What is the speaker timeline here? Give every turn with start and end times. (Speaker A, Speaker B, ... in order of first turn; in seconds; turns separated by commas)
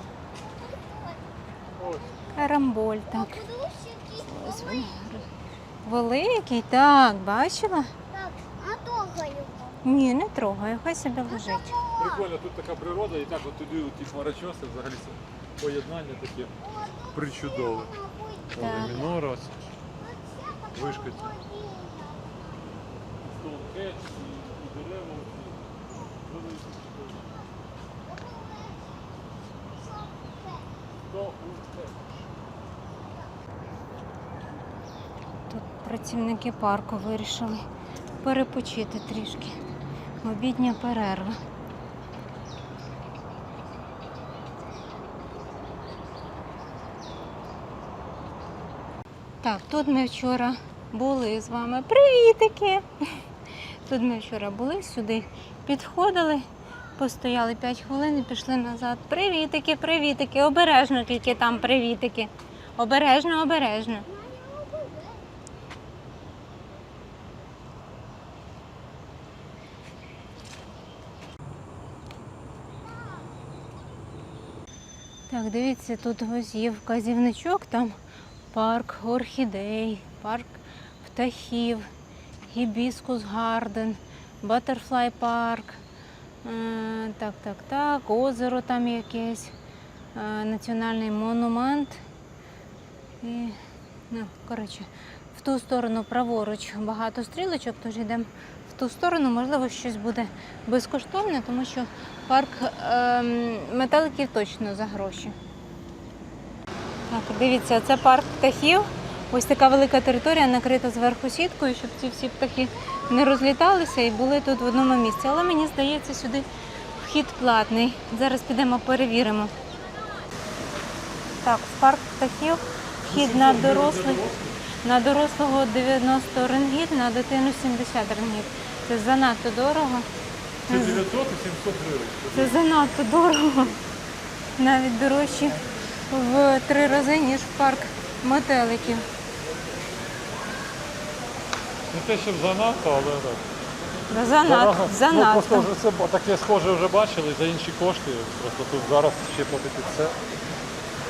Speaker A: 0.3-2.5, Speaker B: 1.8-2.2, Speaker C: 2.3-3.4, Speaker A: 3.1-5.2, Speaker C: 4.2-5.2, Speaker C: 5.8-7.9, Speaker A: 8.1-9.8, Speaker C: 9.8-11.7, Speaker A: 11.3-12.3, Speaker B: 11.9-16.5, Speaker A: 16.6-19.0, Speaker B: 17.1-17.9, Speaker B: 18.5-19.5, Speaker C: 18.6-19.0, Speaker A: 20.0-22.7, Speaker B: 20.7-21.3, Speaker B: 23.2-27.3, Speaker A: 25.9-26.2, Speaker A: 28.0-29.2, Speaker A: 29.7-30.7, Speaker B: 31.0-32.2, Speaker C: 35.5-37.6, Speaker C: 38.2-39.6, Speaker C: 40.2-41.4, Speaker C: 49.4-53.2, Speaker C: 53.9-56.5, Speaker C: 57.0-64.0, Speaker A: 64.1-65.2, Speaker C: 75.3-78.0, Speaker C: 78.5-81.9, Speaker C: 82.5-85.8, Speaker C: 86.4-89.5, Speaker C: 90.1-92.0, Speaker C: 93.2-93.6, Speaker C: 94.1-105.3, Speaker C: 107.1-119.5, Speaker C: 121.4-124.2, Speaker B: 123.0-124.6, Speaker C: 124.8-130.1, Speaker C: 130.7-131.0, Speaker B: 130.7-132.6, Speaker C: 132.3-133.8, Speaker C: 134.6-139.1, Speaker B: 141.9-143.5, Speaker C: 144.1-145.7, Speaker B: 144.3-150.2